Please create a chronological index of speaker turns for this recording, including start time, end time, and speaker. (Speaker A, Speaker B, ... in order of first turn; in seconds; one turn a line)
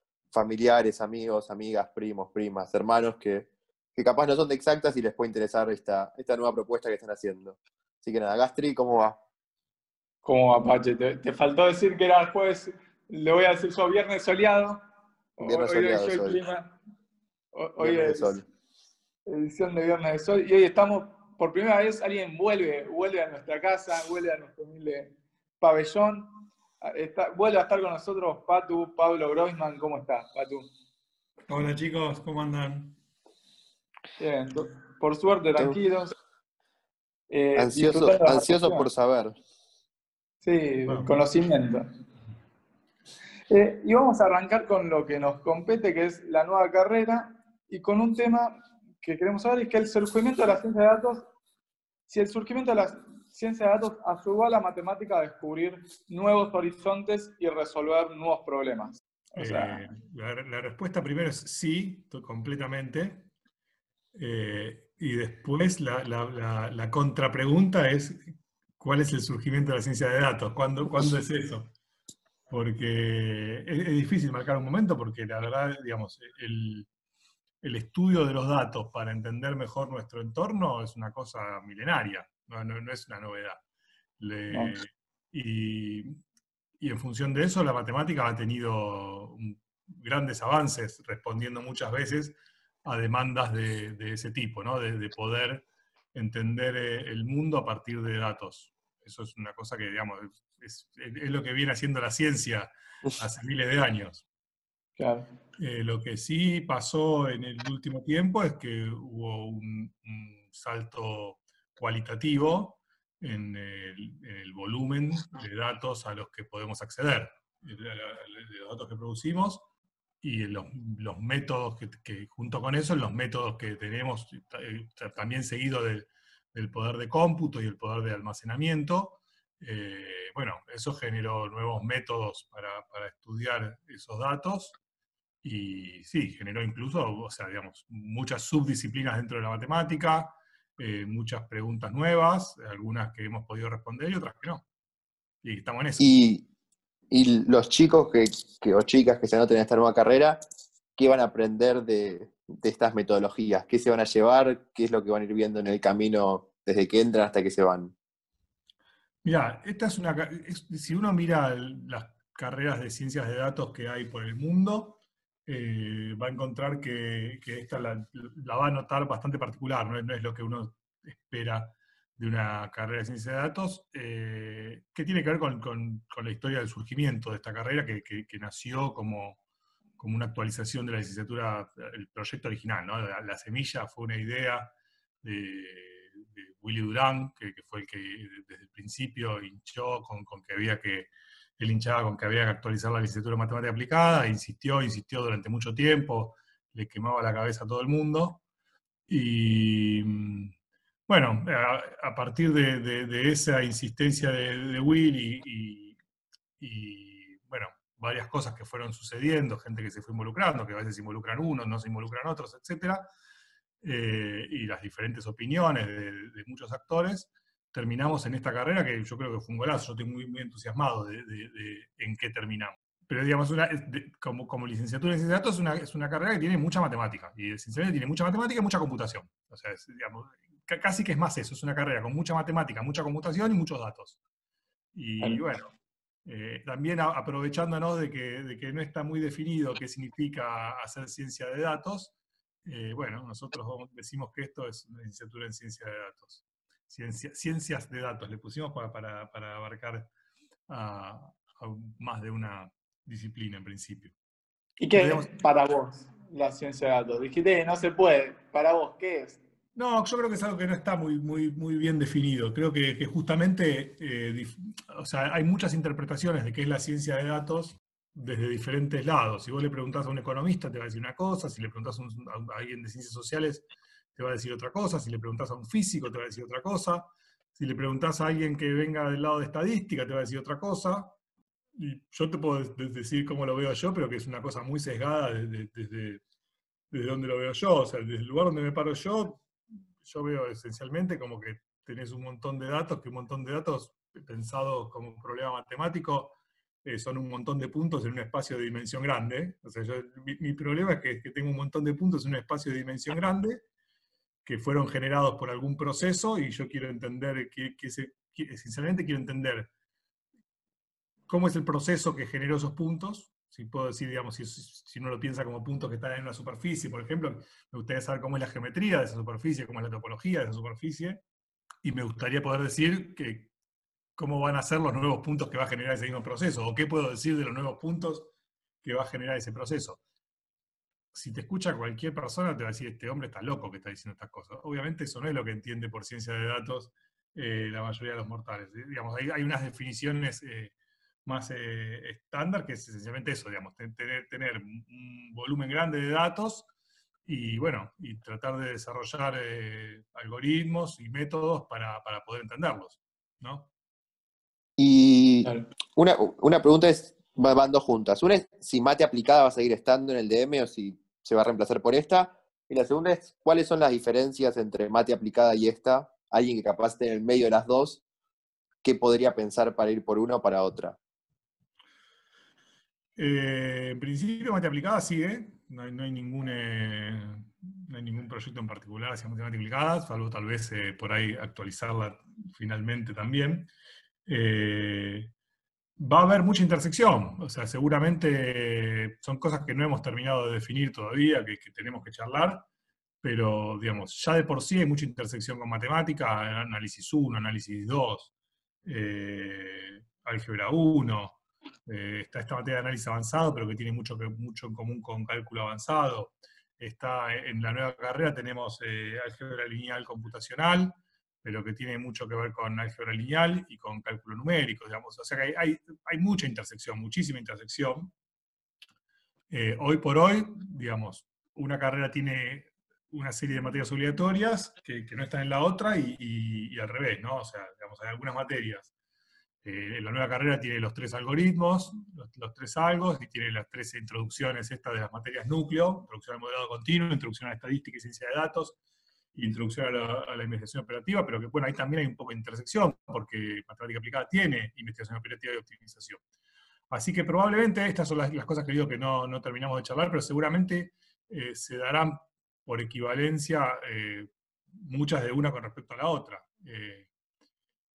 Speaker A: 0.3-9.2
Speaker B: 10.2-14.8
Speaker B: 15.4-16.8
Speaker A: 15.4-16.4
Speaker B: 17.5-18.4
Speaker A: 17.8-18.4
Speaker B: 19.3-26.3
Speaker B: 26.8-30.7
Speaker C: 31.5-33.0
Speaker B: 34.2-36.1
Speaker B: 37.3-38.9
Speaker A: 37.6-39.4
Speaker B: 40.4-41.9
Speaker C: 40.9-41.1
Speaker B: 43.5-51.3
Speaker B: 52.1-59.9
Speaker C: 59.4-63.3
Speaker C: 64.1-71.7
Speaker C: 72.5-76.9
Speaker C: 77.6-83.6
Speaker C: 84.2-86.2
Speaker B: 84.5-84.8
Speaker C: 86.8-104.2
Speaker B: 105.0-105.3
Speaker C: 105.6-119.7
Speaker C: 120.2-134.8
Speaker C: 135.4-144.7
Speaker C: 145.4-146.2
Speaker A: 146.0-146.4
Speaker A: 147.1-150.4
Speaker A: 151.0-157.9
Speaker C: 159.2-179.4
Speaker C: 180.0-198.4
Speaker C: 199.1-200.5
Speaker C: 201.1-206.0
Speaker C: 206.6-213.1
Speaker C: 213.8-234.2
Speaker C: 234.9-235.7
Speaker C: 236.2-242.1
Speaker C: 242.7-250.1
Speaker C: 250.7-254.2
Speaker B: 254.8-259.4
Speaker C: 254.9-255.3
Speaker C: 259.8-281.2
Speaker C: 281.8-286.2
Speaker C: 286.9-289.5
Speaker C: 290.0-303.6
Speaker C: 304.4-309.7
Speaker C: 311.3-321.2
Speaker C: 321.8-323.5
Speaker C: 324.2-328.3
Speaker C: 328.8-330.0
Speaker C: 331.1-340.7
Speaker C: 341.2-346.7
Speaker C: 347.3-353.7
Speaker A: 354.8-368.0
Speaker A: 368.8-371.0
Speaker C: 373.2-383.7
Speaker C: 384.3-385.3
Speaker C: 386.0-392.7
Speaker C: 393.2-398.3
Speaker C: 398.9-418.1
Speaker C: 419.5-428.9
Speaker C: 429.6-438.8
Speaker C: 439.4-446.2
Speaker C: 446.9-457.1